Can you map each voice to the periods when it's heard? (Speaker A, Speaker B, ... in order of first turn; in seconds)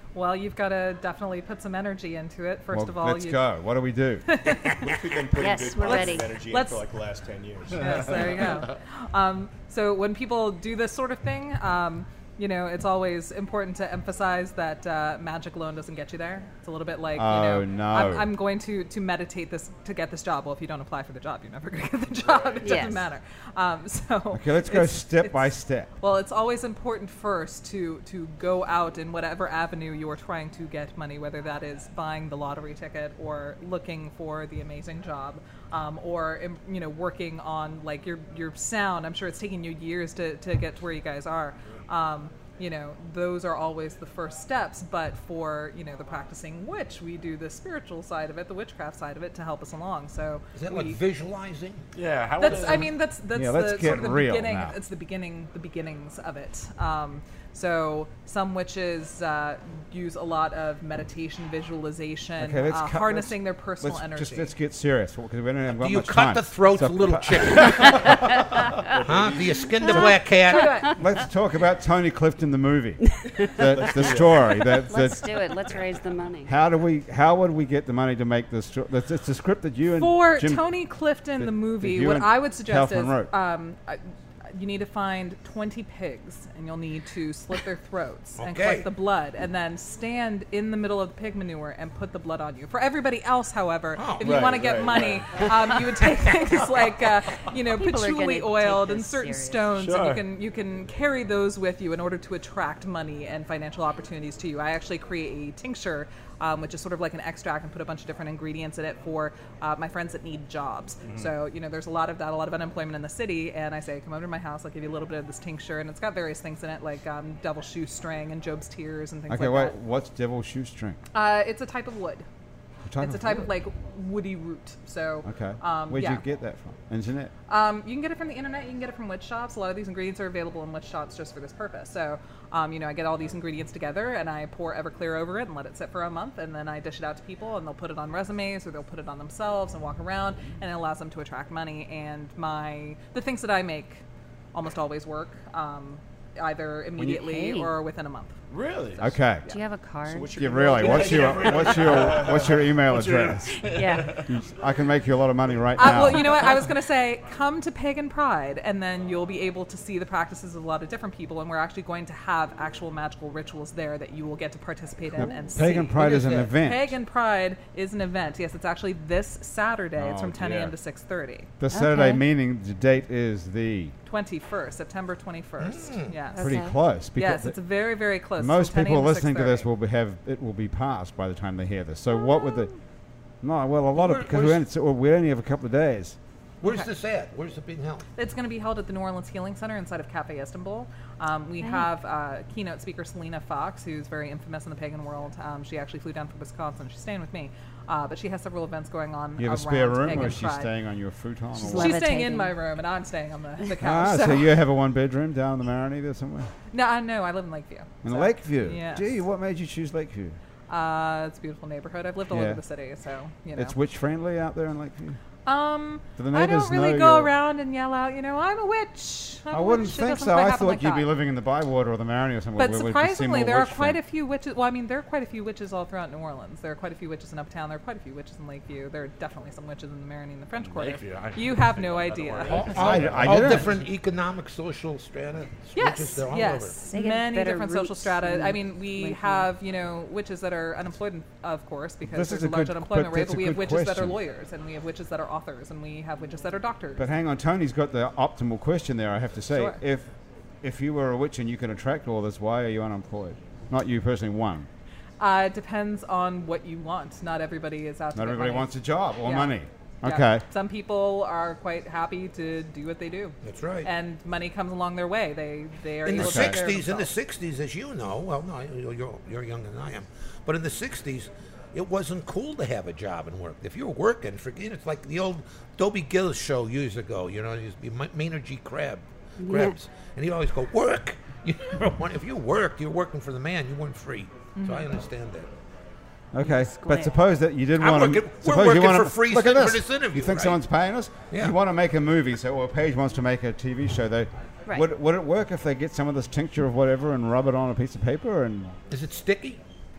Speaker A: 0.1-3.5, 4.3-4.9, 5.8-6.9, 7.7-51.0, 52.4-64.5, 69.9-70.9, 79.9-119.7, 121.1-122.2, 123.0-126.2, 127.5-148.3, 155.8-171.5, 174.1-176.5, 177.2-179.7, 186.6-186.9, 188.2-200.7, 201.6-204.6, 206.7-209.1, 210.7-213.7, 215.4-221.1, 222.6-232.7, 235.7-247.0, 249.5-249.8, 255.2-267.1, 284.6-284.9
Speaker B: 2.7-4.2, 17.1-18.3, 24.3-25.9, 53.3-54.7, 62.4-68.1, 71.0-75.5, 76.5-80.7, 81.4-83.3, 119.3-121.0, 122.8-123.5, 125.2-127.3, 149.0-149.4, 150.3-153.7, 154.2-156.5, 165.2-166.9, 170.0-170.6, 171.6-173.9, 176.4-177.6, 178.4-182.7, 183.4-186.2, 199.4-202.0, 203.8-206.5, 208.0-210.4, 212.3-212.6, 213.5-215.2, 216.2-217.3, 219.5-224.0, 232.7-233.8, 242.0-244.2, 247.0-250.1, 250.6-254.7, 258.1-260.4, 266.1-266.6, 286.3-298.8
Speaker C: 4.8-7.8, 94.2-95.1, 150.1-152.2
Speaker D: 5.3-6.4, 22.6-23.1, 69.8-71.0, 73.1-76.5, 97.7-99.7, 147.0-147.7, 149.4-150.4, 153.6-154.2, 171.7-172.2, 176.3-176.8, 191.6-191.9, 201.6-202.6, 236.8-239.5, 279.4-279.8, 286.4-287.1
Speaker E: 7.8-8.5, 51.9-52.9, 68.9-69.5, 99.8-100.2, 111.0-111.3, 148.5-149.1, 150.8-154.3, 170.4-170.7, 230.6-233.8
Speaker F: 50.5-51.9, 65.7-68.2, 69.0-70.8, 88.4-88.9, 94.0-94.7, 175.6-176.2, 183.9-184.6, 186.6-188.1, 232.4-236.8, 263.4-263.9, 266.0-285.5, 287.8-290.6, 291.3-291.6, 298.9-299.6